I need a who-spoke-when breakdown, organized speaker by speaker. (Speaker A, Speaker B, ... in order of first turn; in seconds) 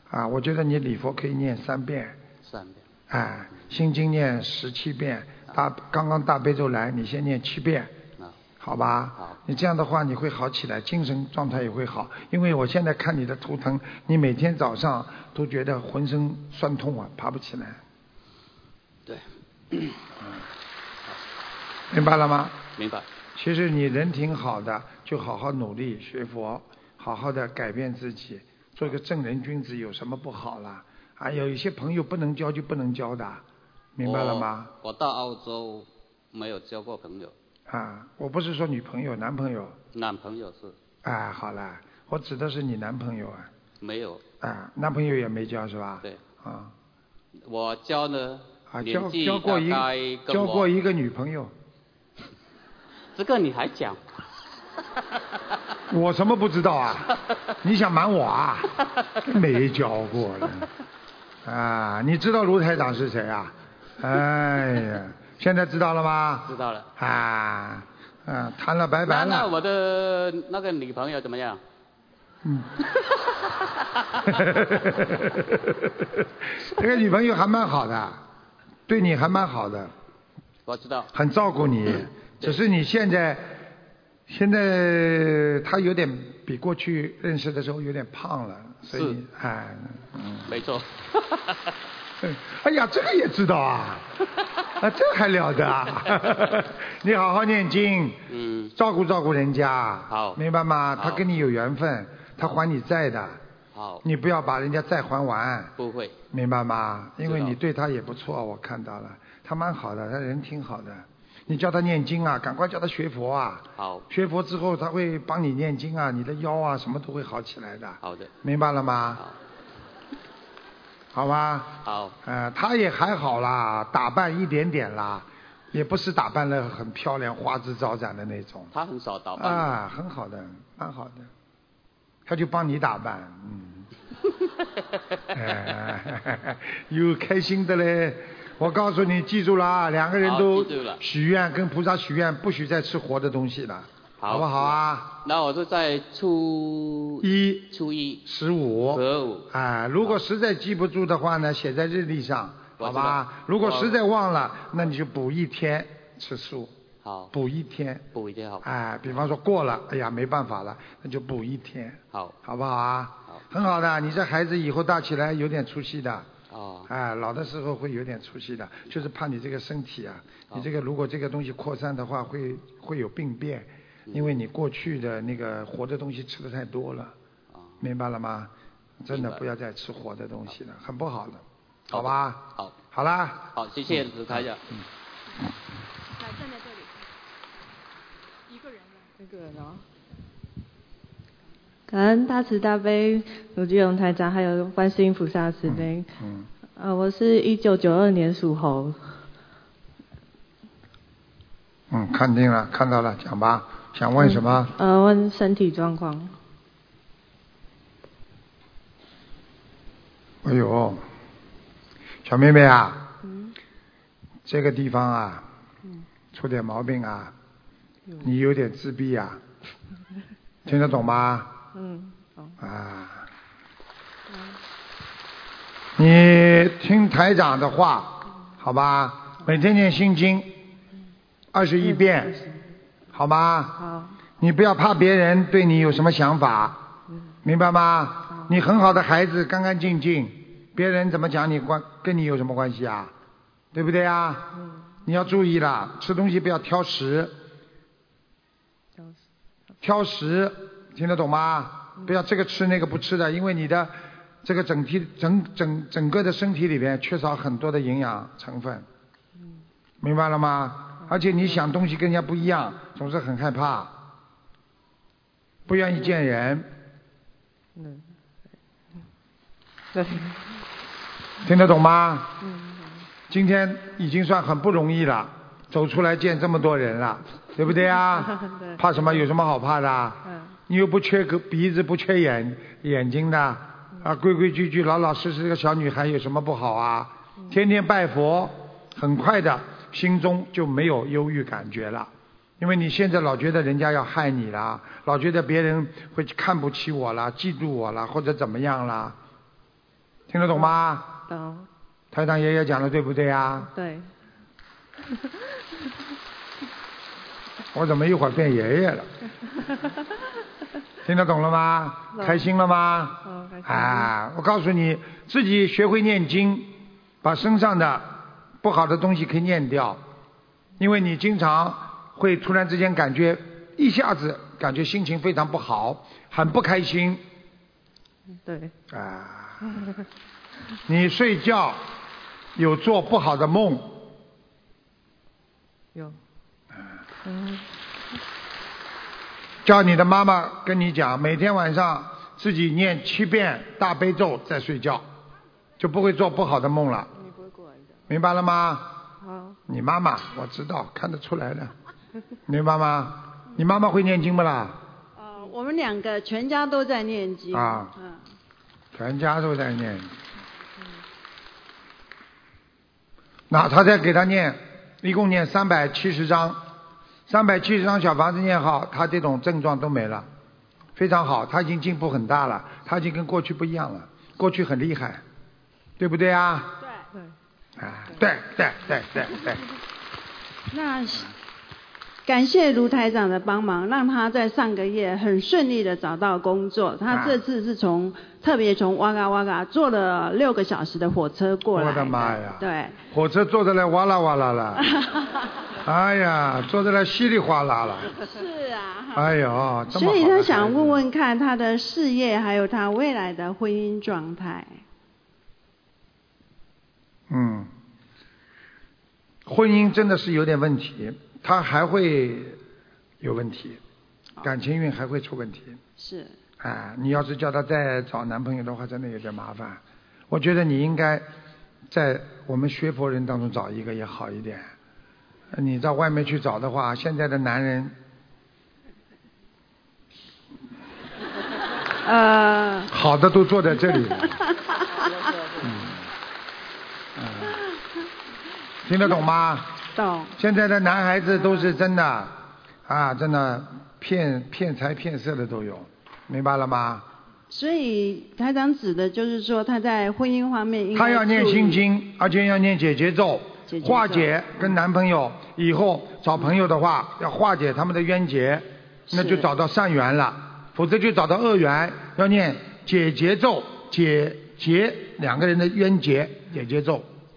Speaker A: 0.1-2.2, 3.1-7.9, 8.6-17.8, 21.9-22.6, 23.4-33.4, 34.0-34.7, 37.7-39.8, 41.0-43.5, 44.4-46.7, 48.7-51.5, 55.9-60.7, 61.4-69.5, 72.4-72.7, 74.2-78.2, 78.9-79.9, 81.1-83.6, 84.3-90.6, 92.2-94.1, 94.8-98.2, 98.8-103.4, 104.0-105.7, 106.3-119.2, 121.1-128.7, 129.4-131.3, 132.3-133.9, 135.3-145.1, 147.2-147.7, 148.2-156.7, 157.3-158.1, 158.6-166.3, 166.9-177.2, 177.8-178.5, 179.0-184.5, 195.7-196.5, 201.9-204.7, 210.4-211.0, 212.2-213.1, 214.5-215.5, 216.3-217.3, 218.2-219.4, 220.7-221.5, 222.6-223.3, 226.0-230.5, 231.5-232.4, 233.1-233.8, 234.4-236.8, 237.4-243.1, 243.7-244.5, 245.1-247.3, 249.8-258.9, 260.0-263.9, 265.7-266.7, 271.4-272.3, 273.3-299.2, 300.3-301.2, 302.1-303.7, 307.7-309.1, 311.0-320.0, 320.8-327.2, 328.9-329.8, 330.9-331.8, 332.6-334.1, 339.6-345.1, 345.8-347.1, 348.1-349.0, 349.7-351.7, 352.5-354.8, 357.5-357.9, 358.9-360.2, 363.5-366.6, 367.3-370.3, 371.0-375.2, 376.0-376.8, 377.8-379.6, 387.1-387.4, 391.7-394.9, 395.8-398.1, 399.1-401.0, 407.3-407.7, 409.4-412.6, 413.2-413.8, 414.4-415.8, 416.6-421.3, 421.9-424.7, 425.5-427.9, 432.9-434.4, 435.6-436.0, 437.2-437.6, 438.8-439.8, 440.4-442.4, 442.9-447.1, 450.9-467.1
Speaker B: 2.5-2.8, 19.1-20.0, 22.8-23.1, 34.0-37.3, 39.9-40.8, 43.8-44.2, 47.5-50.7, 53.1-54.0, 66.5-66.9, 69.1-71.6, 80.7-81.1, 82.0-82.6, 88.9-89.2, 90.5-91.6, 98.3-98.7, 100.1-100.4, 101.0-101.2, 103.7-104.0, 105.8-106.2, 107.2-107.6, 113.8-114.1, 118.0-118.3, 121.8-122.2, 128.7-129.7, 140.2-141.0, 144.2-148.2, 148.9-149.5, 152.8-154.0, 157.0-157.3, 158.1-158.6, 166.5-166.9, 174.1-174.3, 179.1-179.4, 181.9-182.8, 183.6-184.6
Speaker C: 189.2-189.8, 191.9-196.1, 196.8-199.0, 204.2-206.3, 213.2-213.5, 221.7-222.6, 231.8-232.6, 233.8-234.2, 244.6-244.9, 267.8-268.0, 269.9-270.4, 272.4-273.1, 278.2-278.8, 280.3-280.5, 301.3-301.7, 303.6-304.1, 312.1-312.4, 313.2-314.1, 328.4-328.7, 337.2-337.6, 347.1-348.0, 349.2-349.6
Speaker D: 355.2-358.2, 376.8-377.1, 380.7-381.3, 382.3-393.0, 394.8-395.3, 398.2-399.3, 399.9-404.8, 416.0-416.4, 432.0-432.9, 433.9-435.1, 439.9-440.4, 447.5-451.8, 453.7-454.7, 459.1-459.5